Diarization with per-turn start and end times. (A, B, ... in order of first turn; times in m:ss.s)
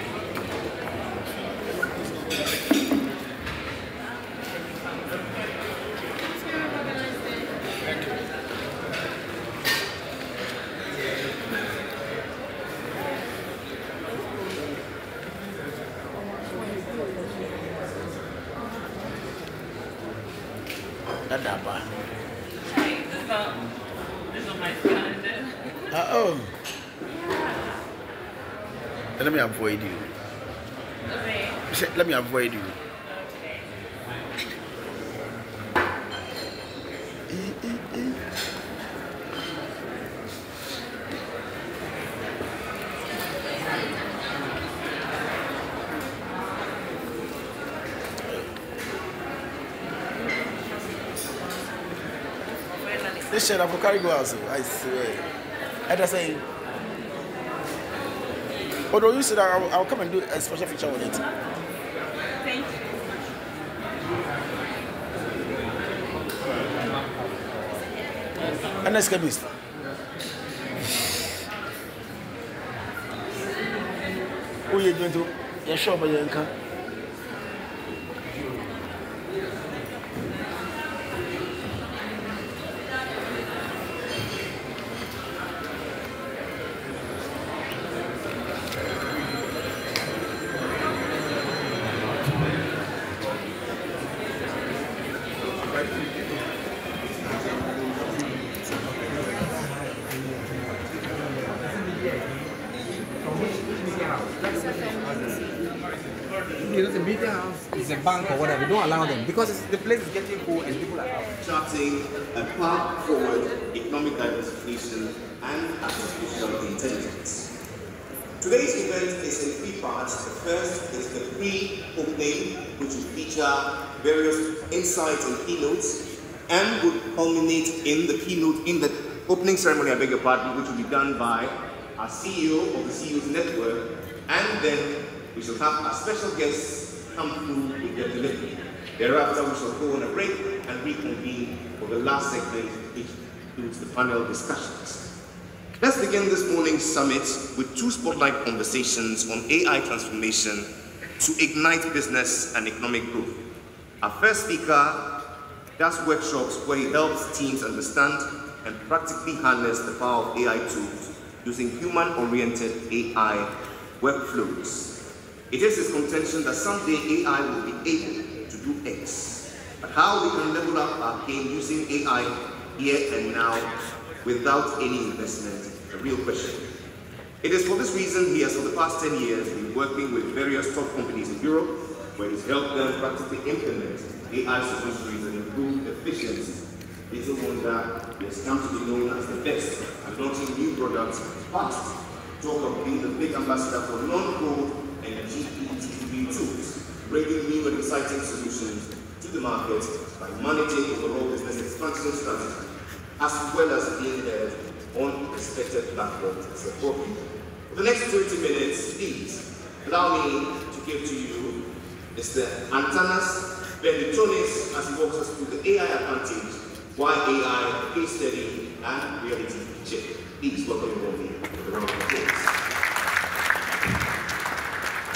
0:21.3-0:21.9 A
0:22.7-0:23.4 B
0:24.3-0:25.5 B
0:25.9-0:26.5 A
0:29.2-0:30.1 A
0:31.7-0:32.8 A
0:33.1-0:33.5 B
0:37.3-0:38.2 A
0:53.0-0:53.4 B
0:53.3-0:55.3 A
0:55.9-0:56.4 A
0:58.9-1:01.2 A
1:02.4-1:03.0 B
1:08.8-1:09.5 A
1:14.7-1:16.5 A
1:38.9-1:39.5 C
1:41.7-1:42.3 C
1:43.3-1:45.4 C
1:46.6-1:51.2 C
1:51.4-1:57.5 D
1:58.4-2:25.0 D
2:25.8-2:30.7 D
2:31.2-2:33.4 D
2:34.0-2:35.0 D
2:35.8-2:43.5 D
2:44.0-2:44.9 D
2:45.5-2:53.7 D
2:54.2-2:56.6 D
2:57.4-3:31.6 D
3:32.2-3:42.5 D